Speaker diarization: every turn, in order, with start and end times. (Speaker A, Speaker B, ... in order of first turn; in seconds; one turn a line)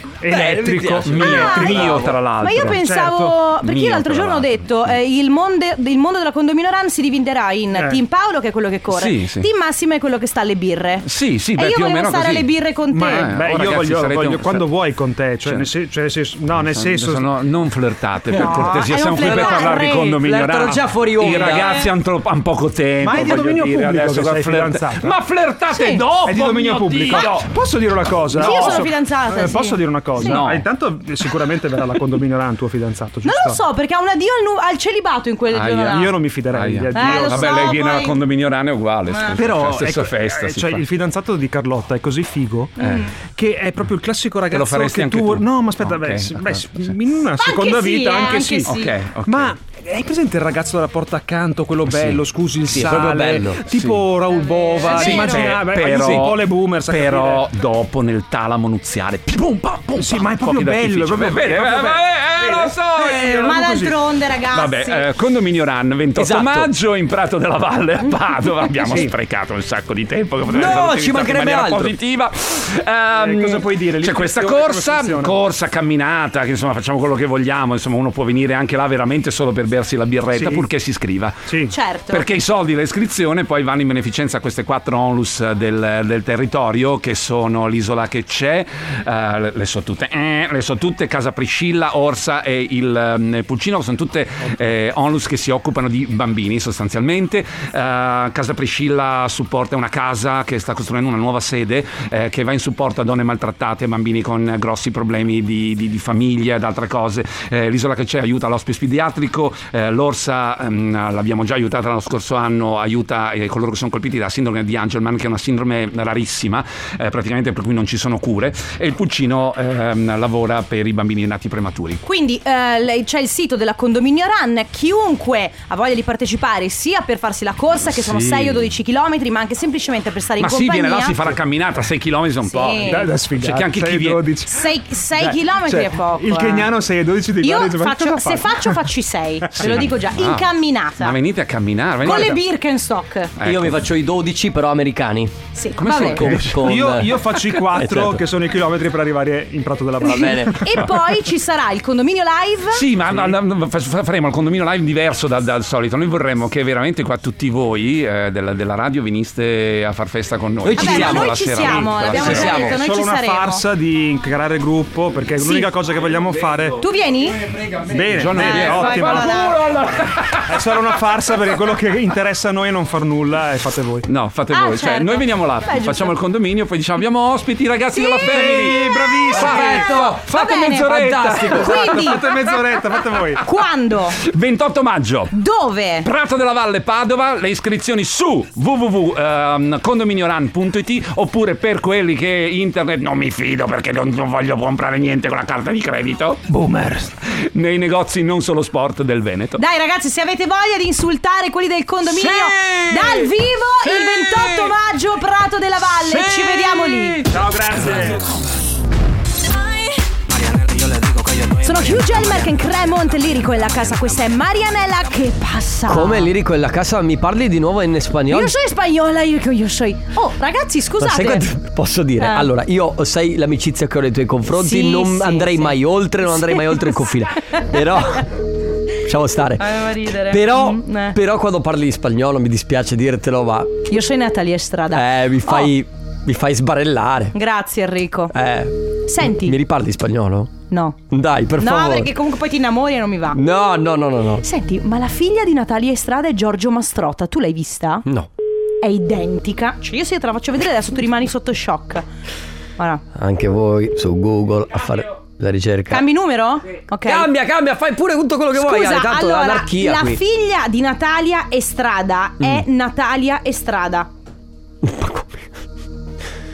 Speaker A: 0.2-3.4
Speaker B: 0.3-2.0
Speaker C: 1.0-2.2
Speaker D: 1.2-1.9
Speaker D: 2.4-13.3
Speaker C: 3.6-4.9
Speaker A: 7.7-8.0
Speaker C: 8.9-9.5
Speaker C: 11.0-12.5
Speaker A: 12.9-17.3
Speaker C: 13.0-14.7
Speaker C: 15.4-15.7
Speaker C: 16.5-27.5
Speaker D: 18.3-20.1
Speaker A: 19.0-20.6
Speaker B: 20.2-21.8
Speaker D: 21.4-21.8
Speaker A: 23.0-25.1
Speaker D: 25.7-26.0
Speaker A: 26.2-33.6
Speaker C: 28.3-28.9
Speaker D: 28.4-30.4
Speaker C: 30.2-30.6
Speaker D: 33.2-36.1
Speaker C: 35.5-40.9
Speaker A: 35.9-37.9
Speaker D: 36.9-38.2
Speaker D: 39.1-39.4
Speaker A: 39.4-42.7
Speaker D: 42.8-43.1
Speaker C: 42.8-43.1
Speaker A: 43.2-57.5
Speaker C: 44.5-47.0
Speaker D: 47.4-48.9
Speaker C: 48.6-49.6
Speaker C: 51.9-52.2
Speaker B: 52.7-53.6
Speaker C: 52.8-53.0
Speaker C: 53.6-54.1
Speaker D: 54.4-55.5
Speaker C: 54.8-63.7
Speaker A: 60.0-64.0
Speaker D: 63.4-65.0
Speaker C: 64.5-81.5
Speaker B: 66.1-66.7
Speaker A: 68.9-69.1
Speaker B: 70.5-72.0
Speaker A: 73.1-75.4
Speaker A: 80.3-80.7
Speaker A: 81.5-81.7
Speaker D: 81.7-82.2
Speaker C: 82.1-122.0
Speaker D: 122.0-131.2
Speaker C: 127.9-128.7
Speaker C: 130.4-134.2
Speaker D: 132.5-133.1
Speaker A: 132.8-138.8
Speaker D: 134.5-136.7
Speaker D: 137.4-141.1
Speaker A: 139.4-139.9
Speaker C: 139.6-142.4
Speaker D: 142.0-143.3
Speaker C: 143.4-143.8
Speaker B: 143.4-145.3
Speaker D: 145.6-146.2
Speaker C: 145.8-146.8
Speaker B: 145.9-148.2
Speaker A: 146.2-151.1
Speaker B: 150.0-150.6
Speaker D: 150.6-152.8
Speaker C: 152.7-162.7
Speaker B: 160.7-161.3
Speaker D: 160.8-163.6
Speaker A: 160.8-166.8
Speaker B: 162.1-162.8
Speaker D: 165.4-165.7
Speaker D: 166.8-167.4
Speaker A: 167.9-169.5
Speaker C: 167.9-170.9
Speaker D: 168.3-169.5
Speaker A: 170.4-174.1
Speaker C: 174.1-181.4
Speaker D: 174.5-176.1
Speaker D: 177.9-178.7
Speaker A: 178.2-179.9
Speaker D: 179.3-182.2
Speaker B: 180.5-181.9
Speaker A: 180.9-183.4
Speaker C: 182.2-183.4
Speaker D: 183.4-184.2
Speaker C: 184.2-185.3
Speaker D: 185.3-186.1
Speaker C: 186.0-196.5
Speaker C: 197.3-199.6
Speaker D: 199.6-207.2
Speaker B: 202.1-203.3
Speaker A: 207.3-208.3
Speaker C: 207.8-208.1
Speaker E: 210.3-214.3
Speaker D: 211.6-216.3
Speaker B: 215.9-218.5
Speaker D: 218.3-221.4
Speaker B: 221.0-228.3
Speaker D: 222.2-222.5
Speaker D: 224.5-225.8
Speaker D: 226.3-227.0
Speaker B: 229.0-233.8
Speaker D: 229.6-231.2
Speaker D: 233.9-235.7
Speaker B: 234.9-237.3
Speaker D: 237.3-238.3
Speaker B: 238.3-240.5
Speaker D: 239.1-239.6
Speaker D: 240.7-241.0
Speaker B: 241.1-242.1
Speaker D: 241.6-243.4
Speaker B: 243.3-244.4
Speaker D: 244.4-248.1
Speaker D: 248.8-252.0
Speaker D: 252.8-253.0
Speaker B: 253.1-256.1
Speaker D: 255.9-257.3
Speaker B: 257.0-260.2
Speaker D: 258.5-264.1
Speaker B: 264.8-265.5